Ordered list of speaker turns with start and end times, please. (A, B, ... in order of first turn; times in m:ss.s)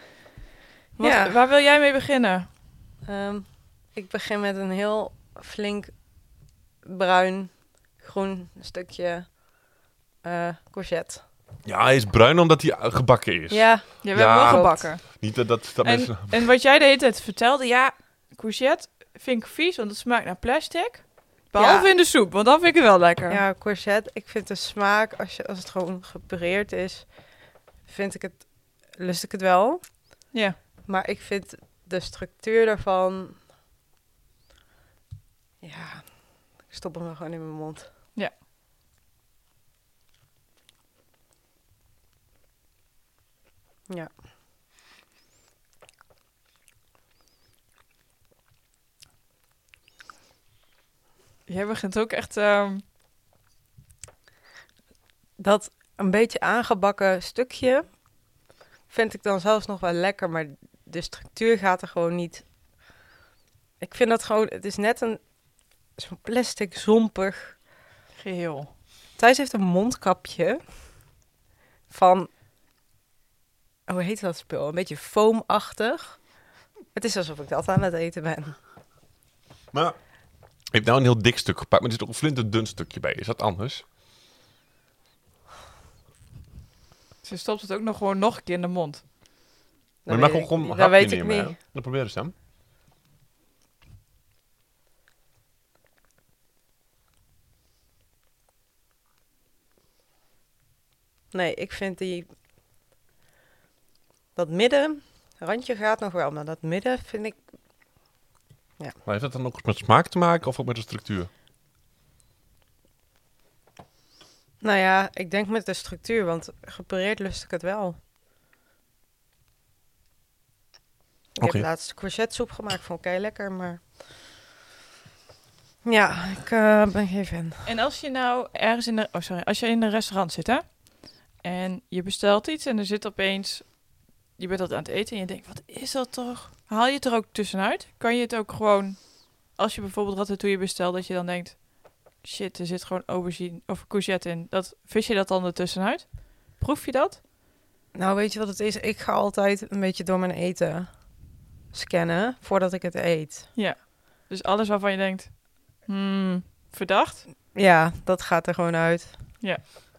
0:01.0-0:01.4 A
0:01.0-0:02.5 B
0:03.0-0:06.0 A
0:06.8-0:09.4 A
0:10.2-0:11.2 A
0:11.6-0:16.4 C
0:13.5-0:14.8 A
0:14.0-0:15.2 B
0:15.8-0:23.4 B
0:21.6-0:21.9 A
0:23.3-0:27.1 A
0:27.8-0:29.8 A
0:30.9-0:33.4 A
0:35.6-0:37.9 A
0:51.5-0:52.8 B
0:55.4-0:57.9 A
0:58.9-1:02.4 A
1:03.8-1:05.2 A
1:06.0-1:07.6 A
1:08.2-1:08.7 B
1:09.2-1:10.6 A
1:11.9-1:12.3 A
1:13.9-1:16.3 A
1:16.9-1:18.6 A
1:20.7-1:23.8 C
1:27.2-1:29.0 B
1:30.0-1:31.6 A
1:30.1-1:32.3 C
1:41.3-1:42.3 A
1:44.4-1:47.4 A
1:49.1-1:51.3 C
1:54.6-1:58.0 A
2:01.4-2:01.7 C
2:01.4-2:03.9 A
2:05.8-2:07.7 A
2:07.6-2:13.8 B
2:14.4-2:27.2 B
2:27.9-2:31.0 A
2:31.7-2:33.5 A
2:33.6-2:37.2 B
2:37.5-2:39.1 A